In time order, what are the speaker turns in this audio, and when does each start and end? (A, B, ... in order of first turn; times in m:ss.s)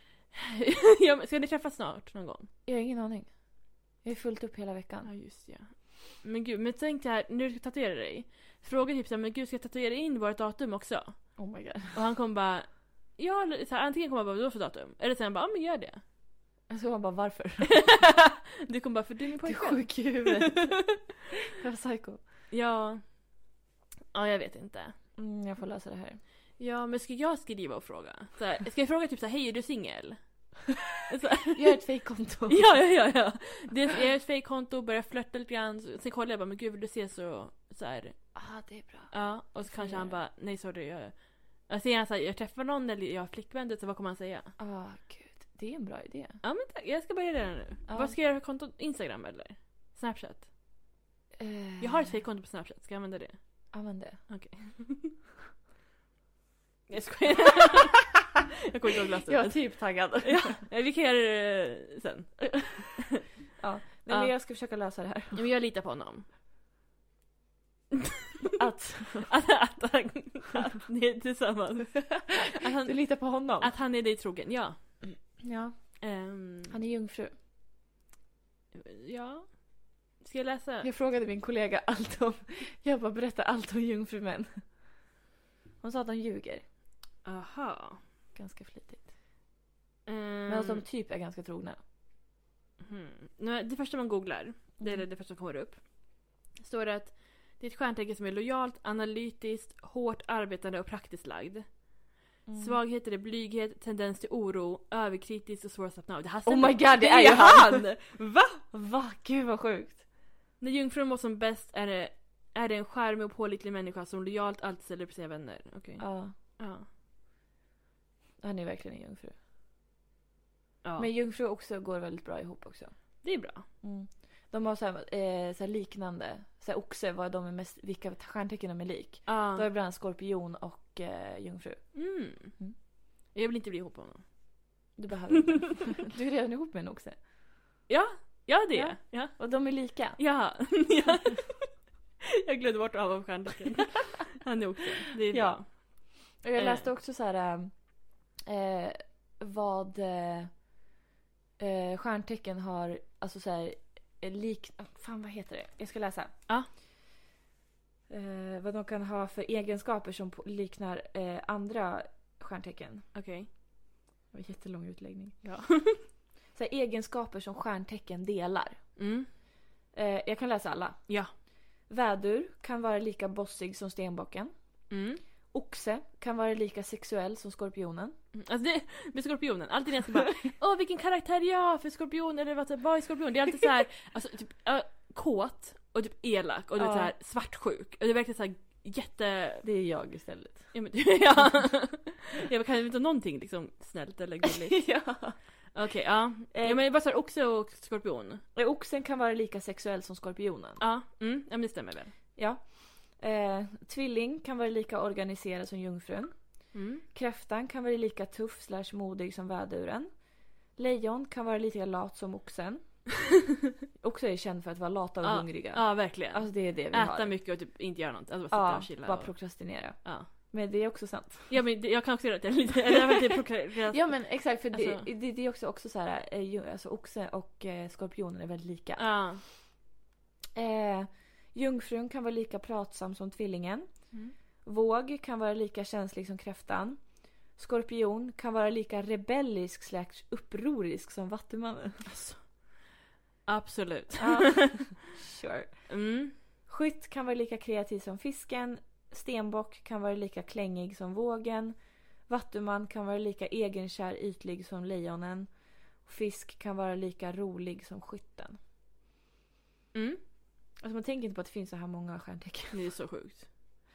0:00.3-0:02.5 A
0:02.7-0:05.1 B
0:05.0-0:16.0 A
0:11.4-0:12.0 B
0:16.7-0:17.8 B
0:17.7-0:20.7 A
0:19.4-0:22.3 B
0:22.5-0:23.4 A
0:24.1-0:25.0 A
0:25.2-0:26.2 B
0:26.6-0:30.5 A
0:31.1-0:31.8 A
0:31.5-0:32.9 B
0:32.5-0:38.4 A
0:38.4-0:40.2 B
0:39.1-0:44.6 A
0:44.6-0:46.4 B
0:46.4-0:50.5 A
0:47.9-0:48.2 B
0:51.4-0:52.2 B
0:51.8-0:53.7 A
0:53.7-0:54.2 B
0:54.3-0:55.2 A
0:56.9-0:58.1 A
0:58.7-1:03.0 A
0:59.3-1:00.6 B
1:03.6-1:05.4 B
1:04.1-1:04.3 A
1:05.4-1:06.3 A
1:08.6-1:09.3 B
1:09.3-1:15.0 A
1:12.3-1:13.7 B
1:15.4-1:16.0 B
1:16.0-1:16.7 A
1:16.6-1:17.4 B
1:18.7-1:20.9 A
1:20.8-1:25.0 B
1:25.8-1:26.6 B
1:27.2-1:28.0 A
1:28.3-1:29.1 B
1:30.1-1:30.9 A
1:30.5-1:31.8 B
1:32.8-1:41.9 A
1:34.8-1:35.0 B
1:42.5-1:42.8 B
1:42.5-1:48.6 A
1:46.5-1:48.1 B
1:48.6-1:50.1 B
1:50.6-1:56.9 A
1:56.0-1:56.3 B
1:58.4-1:59.4 B
2:00.8-2:01.1 A
2:01.0-2:03.2 B
2:03.2-2:03.6 A
2:03.8-2:12.8 B
2:09.3-2:09.6 A
2:11.9-2:12.6 A
2:13.3-2:14.5 A
2:15.0-2:17.2 B
2:17.9-2:21.8 A
2:18.7-2:20.2 B
2:22.4-2:26.9 A
2:25.3-2:30.7 B
2:31.6-2:36.3 B
2:38.1-2:43.1 B
2:43.1-2:43.5 A
2:44.3-2:45.4 B
2:45.4-2:46.0 A
2:46.5-2:49.0 B
2:49.0-2:49.3 A
2:49.9-2:54.9 B
2:54.9-2:55.2 A
2:55.5-2:58.1 B
2:58.3-3:09.6 A
3:06.8-3:07.1 B
3:09.6-3:10.7 B
3:10.7-3:18.4 A
3:14.7-3:15.4 B
3:16.5-3:16.8 B
3:18.6-3:20.8 B
3:20.8-3:22.1 A
3:22.4-3:33.3 B
3:26.7-3:27.0 A
3:34.0-3:37.4 B
3:35.2-3:40.3 A
3:38.5-3:41.6 B
3:41.5-3:45.1 A
3:43.9-3:49.5 B
3:49.0-3:49.4 A
3:50.6-4:02.1 B
4:02.0-4:02.7 A
4:03.4-4:04.8 A
4:04.2-4:18.6 B
4:05.9-4:06.4 A
4:19.9-4:20.2 A
4:20.8-4:22.9 B
4:22.7-4:23.5 A